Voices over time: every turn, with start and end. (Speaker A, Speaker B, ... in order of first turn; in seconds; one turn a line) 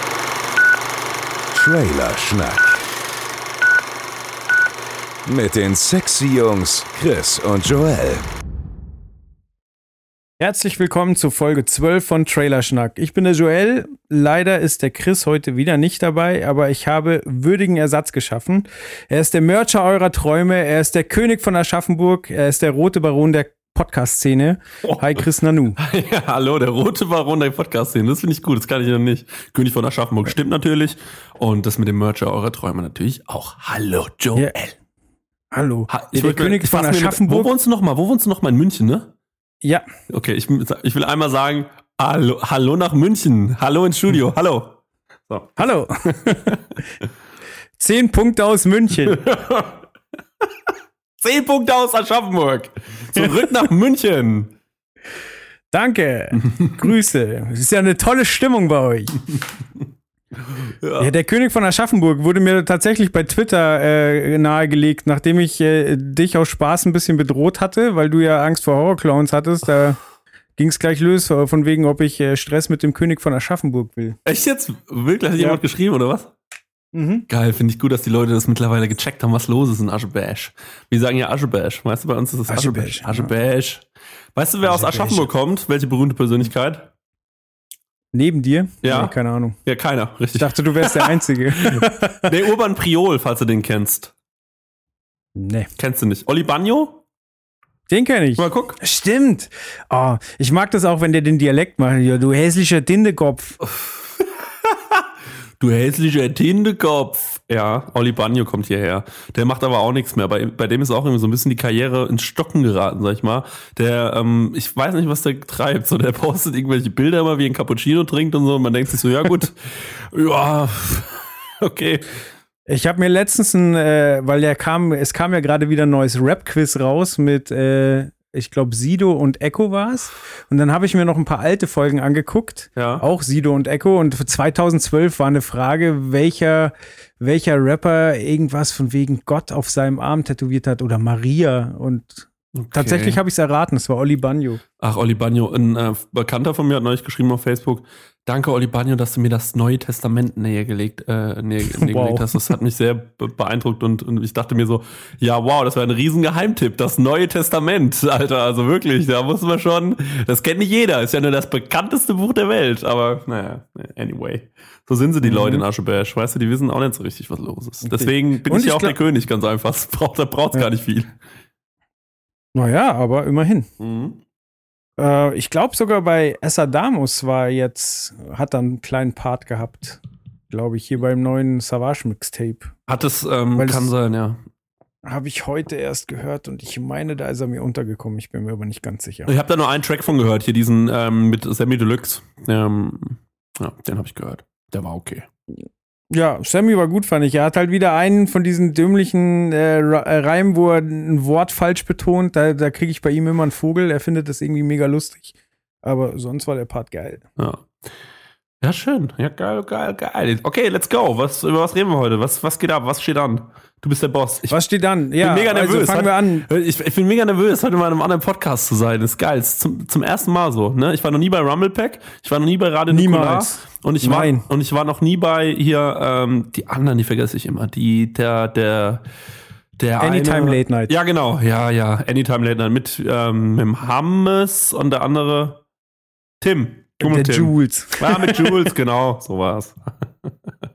Speaker A: 1.5-2.8
Speaker A: 5.2-8.2
Speaker B: 10.4-25.8
Speaker C: 24.8-25.2
Speaker C: 25.8-34.7
Speaker B: 35.5-37.5
Speaker C: 35.9-39.1
Speaker C: 40.1-45.6
Speaker B: 45.5-46.5
Speaker B: 47.8-49.2
Speaker C: 49.0-49.8
Speaker C: 51.2-54.5
Speaker B: 55.7-59.2
Speaker C: 60.8-61.1
Speaker B: 61.0-70.0
Speaker B: 70.6-74.2
Speaker C: 74.2-76.3
Speaker B: 76.9-77.2
Speaker C: 77.3-86.9
Speaker B: 82.5-83.3
Speaker B: 84.6-85.3
Speaker B: 88.1-89.5
Speaker C: 88.8-89.1
Speaker C: 89.7-94.1
Speaker B: 90.3-92.3
Speaker B: 95.3-95.7
Speaker C: 95.8-97.0
Speaker B: 97.9-103.6
Speaker C: 98.4-98.8
Speaker C: 103.7-105.0
Speaker C: 105.6-122.1
Speaker B: 122.7-144.6
Speaker C: 132.8-133.0
Speaker C: 142.6-143.2
Speaker C: 144.8-171.1
Speaker B: 151.7-152.5
Speaker B: 165.2-165.6
Speaker B: 167.8-169.0
Speaker B: 172.5-173.7
Speaker C: 173.8-174.2
Speaker B: 175.0-182.7
Speaker C: 182.9-184.4
Speaker B: 183.6-183.9
Speaker B: 185.0-189.3
Speaker C: 189.3-195.3
Speaker B: 196.1-205.3
Speaker B: 205.8-207.2
Speaker C: 207.4-207.7
Speaker C: 208.6-214.6
Speaker B: 214.5-216.4
Speaker C: 215.2-229.0
Speaker B: 222.9-224.4
Speaker C: 229.8-235.6
Speaker B: 230.0-230.9
Speaker C: 236.4-240.3
Speaker B: 237.0-238.6